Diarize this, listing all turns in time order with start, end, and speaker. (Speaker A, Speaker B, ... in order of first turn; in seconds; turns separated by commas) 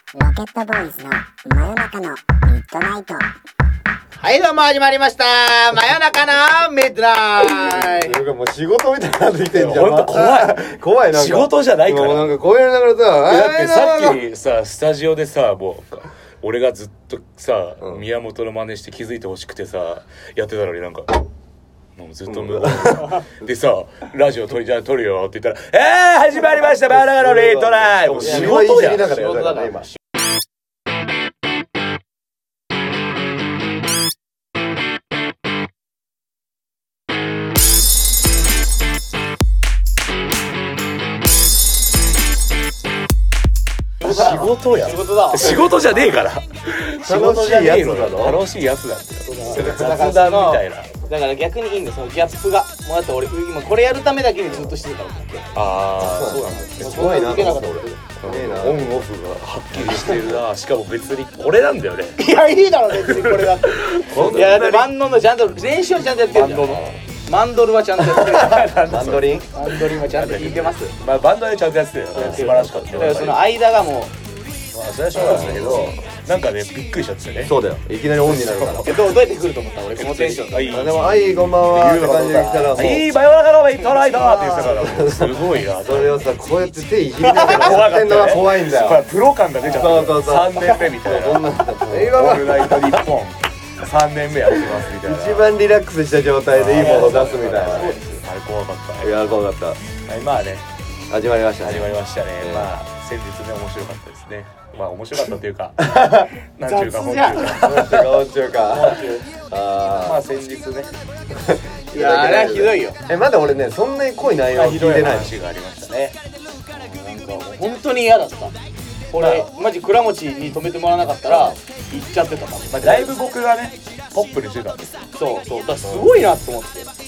Speaker A: 0.1-3.3, Speaker B: 4.2-8.2, Speaker C: 7.8-14.2, Speaker D: 9.5-12.3, Speaker D: 13.2-21.2, Speaker C: 17.8-18.0, Speaker D: 22.0-29.2, Speaker C: 22.3-23.5, Speaker C: 26.9-29.9, Speaker B: 28.2-30.0, Speaker D: 44.0-50.9, Speaker B: 44.0-45.8, Speaker C: 47.0-48.4, Speaker B: 49.2-55.5, Speaker C: 49.5-49.9, Speaker D: 55.5-57.5, Speaker C: 56.0-59.1, Speaker B: 56.7-58.0, Speaker D: 58.2-62.2, Speaker C: 59.7-60.4, Speaker B: 62.2-71.0, Speaker D: 63.0-64.9, Speaker C: 64.1-64.5, Speaker C: 66.2-67.0, Speaker C: 68.1-69.5, Speaker D: 68.3-69.2, Speaker D: 69.9-73.5, Speaker B: 72.1-74.1, Speaker C: 72.1-73.4, Speaker D: 74.7-77.6, Speaker C: 75.1-76.0, Speaker C: 77.4-78.9, Speaker D: 78.2-79.0, Speaker B: 78.8-80.8, Speaker D: 80.0-86.2, Speaker C: 80.7-83.1, Speaker C: 84.1-89.0, Speaker B: 84.2-84.7, Speaker D: 87.3-95.5, Speaker B: 87.3-87.7, Speaker C: 89.7-93.0, Speaker B: 89.7-90.0, Speaker C: 94.7-97.9, Speaker D: 96.5-99.3, Speaker B: 96.7-98.2, Speaker C: 99.0-99.8, Speaker D: 100.1-100.7, Speaker C: 101.1-102.7, Speaker D: 101.6-109.0, Speaker C: 105.9-106.2, Speaker B: 106.6-107.6, Speaker C: 107.6-110.2, Speaker B: 108.7-109.3, Speaker D: 110.0-110.9, Speaker C: 111.3-115.3, Speaker B: 111.9-113.0, Speaker D: 114.5-116.2, Speaker B: 116.7-118.5, Speaker B: 119.1-123.1, Speaker D: 119.2-119.5, Speaker C: 121.2-121.6, Speaker D: 122.7-125.1, Speaker B: 125.1-126.9, Speaker C: 125.8-126.1